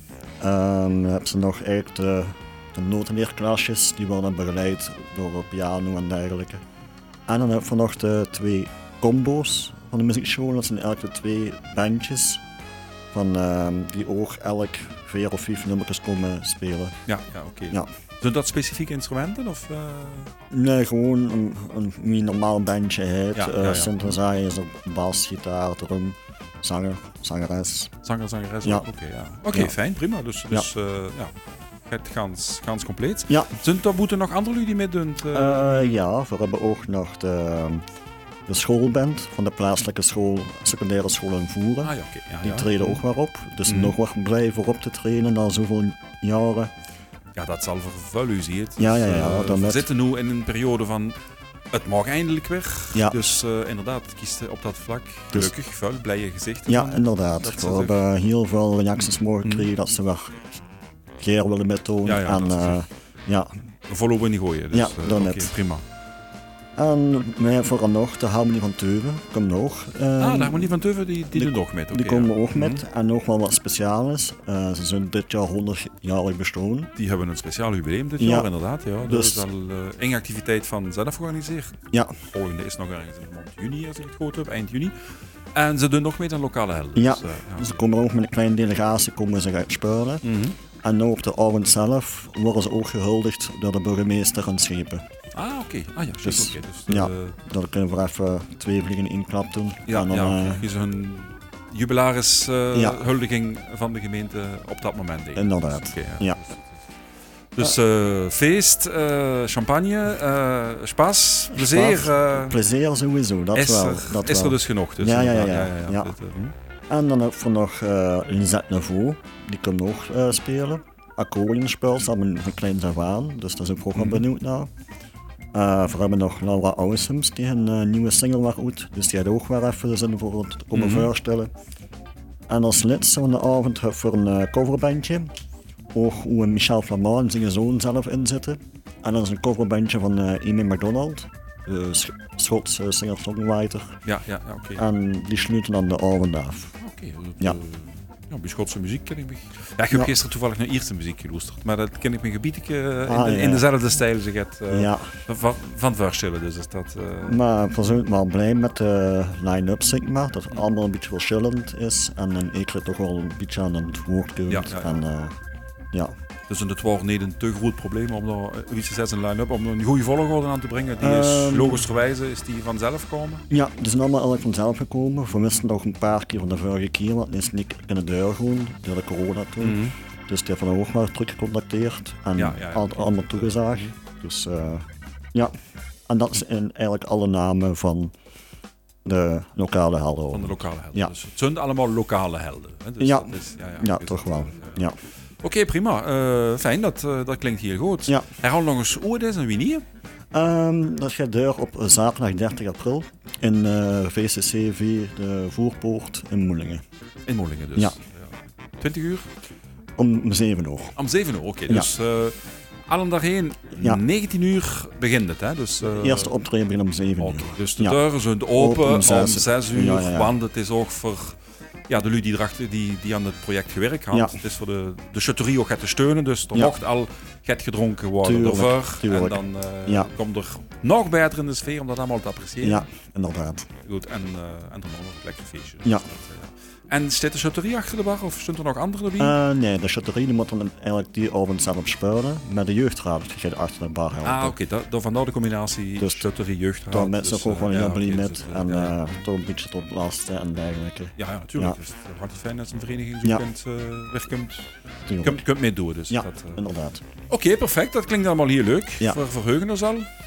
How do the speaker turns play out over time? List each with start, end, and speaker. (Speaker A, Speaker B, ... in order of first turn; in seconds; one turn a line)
Speaker A: 0.4-6.6
Speaker A: 7.3-12.4
Speaker A: 13.1-17.0
Speaker B: 17.1-20.3
Speaker A: 20.5-27.9
Speaker B: 23.4-24.1
Speaker B: 28.0-31.3
Speaker A: 29.5-29.8
Speaker B: 31.9-36.0
Speaker A: 35.3-37.8
Speaker A: 38.5-41.9
Speaker B: 41.8-43.0
Speaker A: 42.4-46.7
Speaker B: 43.7-43.9
Speaker B: 47.4-51.2
Speaker A: 48.8-49.9
Speaker B: 51.7-58.0
Speaker A: 56.7-60.5
Speaker A: 61.2-63.5
Speaker B: 62.0-62.8
Speaker B: 63.9-65.8
Speaker A: 64.7-65.5
Speaker A: 66.8-70.8
Speaker B: 70.2-72.8
Speaker A: 71.3-76.9
Speaker B: 77.0-84.9
Speaker A: 78.2-78.5
Speaker A: 79.0-79.5
Speaker B: 85.5-87.7
Speaker A: 87.0-90.2
Speaker B: 90.2-90.6
Speaker A: 90.8-95.0
Speaker B: 95.3-97.3
Speaker A: 96.2-100.7
Speaker B: 99.9-106.8
Speaker A: 102.7-103.0
Speaker A: 105.4-106.4
Speaker B: 107.6-112.6
Speaker A: 111.5-116.1
Speaker B: 113.5-116.5
Speaker A: 116.9-124.7
Speaker B: 124.0-124.2
Speaker A: 125.5-131.5
Speaker B: 130.7-131.1
Speaker A: 132.5-135.3
Speaker A: 135.9-144.0
Speaker B: 144.1-144.8
Speaker A: 144.8-146.7
Speaker B: 146.8-157.4
Speaker A: 153.1-153.7
Speaker A: 154.7-155.1
Speaker A: 157.3-165.3
Speaker B: 164.5-165.0
Speaker B: 166.5-173.4
Speaker A: 171.0-171.8
Speaker A: 173.5-185.5
Speaker B: 179.6-179.9
Speaker B: 182.4-183.9
Speaker A: 186.1-188.1
Speaker A: 189.1-191.1
Speaker B: 190.3-194.9
Speaker A: 193.0-194.9
Speaker B: 195.4-199.8
Speaker A: 200.3-206.8
Speaker B: 207.3-208.3
Speaker B: 208.8-209.3
Speaker A: 210.0-210.9
Speaker B: 211.0-216.3
Speaker A: 215.9-218.0
Speaker B: 217.2-221.4
Speaker A: 218.6-220.3
Speaker B: 221.9-232.9
Speaker A: 224.1-224.4
Speaker A: 228.2-230.1
Speaker A: 232.6-233.7
Speaker B: 233.8-239.4
Speaker A: 239.2-244.6
Speaker B: 244.2-249.0
Speaker A: 246.0-246.3
Speaker A: 246.9-251.8
Speaker B: 251.2-254.7
Speaker A: 255.1-255.4
Speaker B: 255.2-256.6
Speaker A: 256.1-257.0
Speaker B: 257.3-260.1